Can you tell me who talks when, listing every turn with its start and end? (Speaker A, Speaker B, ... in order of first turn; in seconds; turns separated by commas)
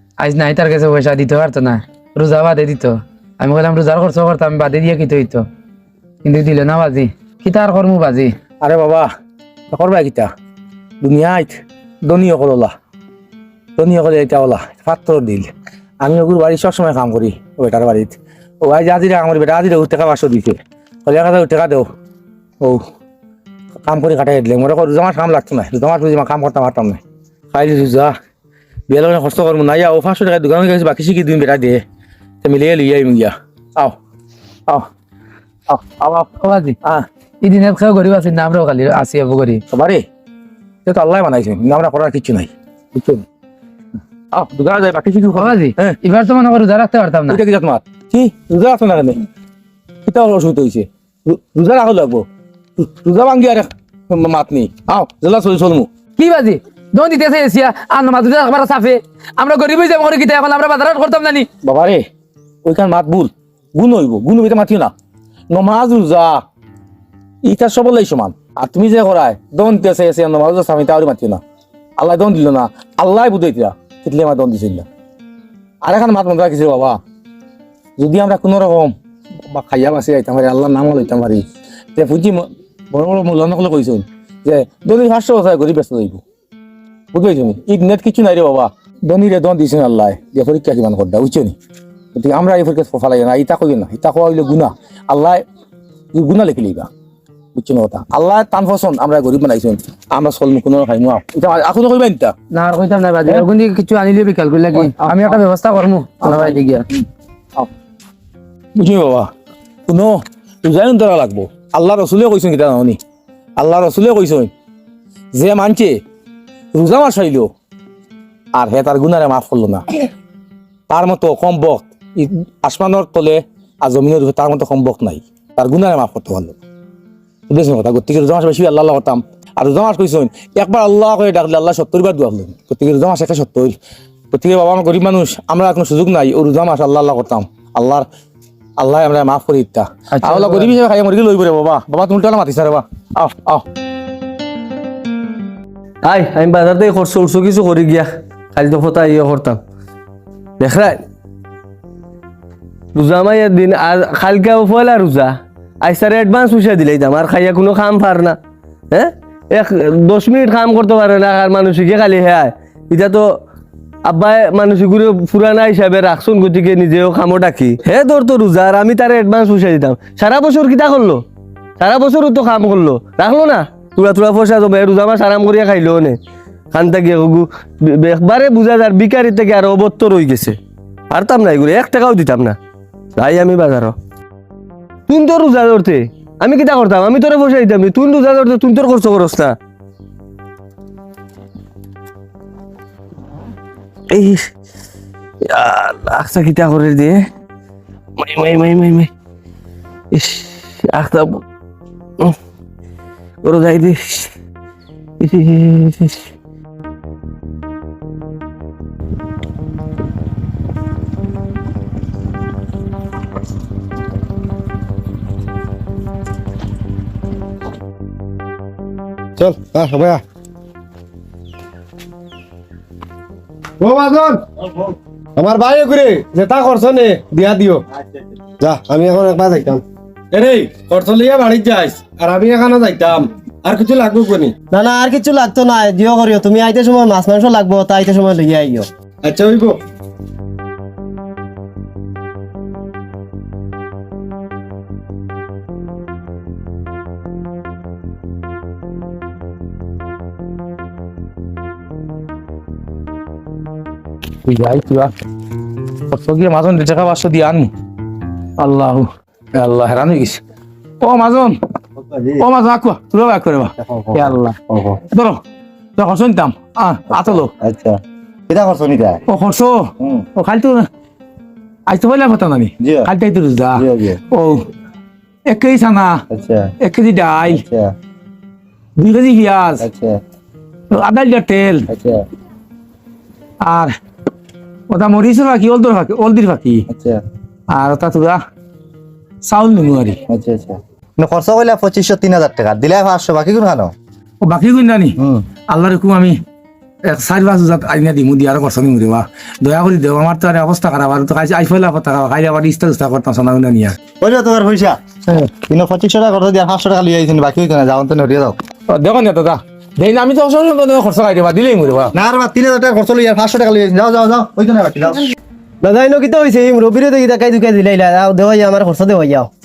Speaker A: 0.2-5.5, Speaker A: 6.2-8.3, Speaker B: 8.6-9.1, Speaker B: 9.7-10.3, Speaker B: 11.0-12.7, Speaker B: 13.8-21.9, Speaker B: 23.8-27.0, Speaker B: 27.5-28.2, Speaker B: 28.9-31.8, Speaker B: 32.4-34.0, Speaker B: 35.7-36.3, Speaker A: 36.4-36.8, Speaker A: 37.4-39.6, Speaker B: 39.7-40.1, Speaker B: 40.9-43.2, Speaker B: 44.3-46.0, Speaker A: 45.4-47.4, Speaker B: 47.3-49.3, Speaker B: 50.1-52.3, Speaker B: 52.8-55.9, Speaker A: 56.2-61.5, Speaker B: 61.6-62.1, Speaker B: 62.6-64.9, Speaker B: 65.5-66.4, Speaker B: 67.4-71.4, Speaker B: 72.0-74.9, Speaker B: 75.8-77.0, Speaker B: 78.0-79.0, Speaker B: 79.5-86.2, Speaker B: 87.1-91.6, Speaker B: 92.1-95.4, Speaker B: 96.1-96.9, Speaker B: 97.5-102.3, Speaker A: 102.5-106.9, Speaker B: 104.8-105.3, Speaker B: 106.2-107.0, Speaker B: 108.8-109.3, Speaker B: 109.9-113.0, Speaker B: 113.6-114.5, Speaker B: 115.3-116.0, Speaker B: 116.7-117.5, Speaker B: 118.5-119.8, Speaker B: 120.9-126.6, Speaker B: 127.5-133.8, Speaker B: 134.3-138.1, Speaker B: 138.8-143.7, Speaker A: 140.1-140.7, Speaker C: 146.1-149.6, Speaker C: 150.6-151.0, Speaker C: 152.9-158.4, Speaker C: 158.9-163.4, Speaker C: 164.1-171.2, Speaker C: 171.8-176.2, Speaker C: 176.7-180.6, Speaker C: 181.1-182.6, Speaker C: 183.2-183.9, Speaker C: 185.1-189.6, Speaker C: 194.1-194.5, Speaker C: 195.4-197.2, Speaker C: 198.2-199.1, Speaker C: 200.1-201.4, Speaker C: 203.4-204.3, Speaker C: 205.2-206.2, Speaker D: 219.4-220.2, Speaker D: 223.8-224.4, Speaker D: 225.4-227.8, Speaker D: 228.6-228.9, Speaker E: 228.9-229.8, Speaker D: 230.3-234.5, Speaker E: 234.7-238.9, Speaker D: 239.2-239.8, Speaker B: 254.4-255.1, Speaker B: 256.1-257.7, Speaker B: 258.6-260.4, Speaker B: 261.0-261.6, Speaker F: 262.0-262.4, Speaker B: 262.4-265.4, Speaker F: 263.8-265.0, Speaker B: 266.0-267.5, Speaker F: 267.1-269.2, Speaker B: 269.3-270.9, Speaker B: 271.9-274.6, Speaker F: 272.8-273.1, Speaker F: 273.8-274.2, Speaker B: 275.5-276.2, Speaker F: 276.3-276.7, Speaker B: 276.8-277.6, Speaker F: 277.5-277.9, Speaker B: 279.0-279.9, Speaker F: 279.8-280.2, Speaker B: 280.9-281.9, Speaker F: 281.9-282.2, Speaker B: 283.6-283.9, Speaker B: 284.9-286.9, Speaker F: 286.9-287.2, Speaker B: 287.7-288.4, Speaker B: 289.4-290.2, Speaker F: 290.3-293.9, Speaker B: 294.4-296.4, Speaker B: 297.1-304.0, Speaker F: 304.2-308.6, Speaker B: 308.9-312.1, Speaker F: 312.1-315.2, Speaker E: 315.8-319.5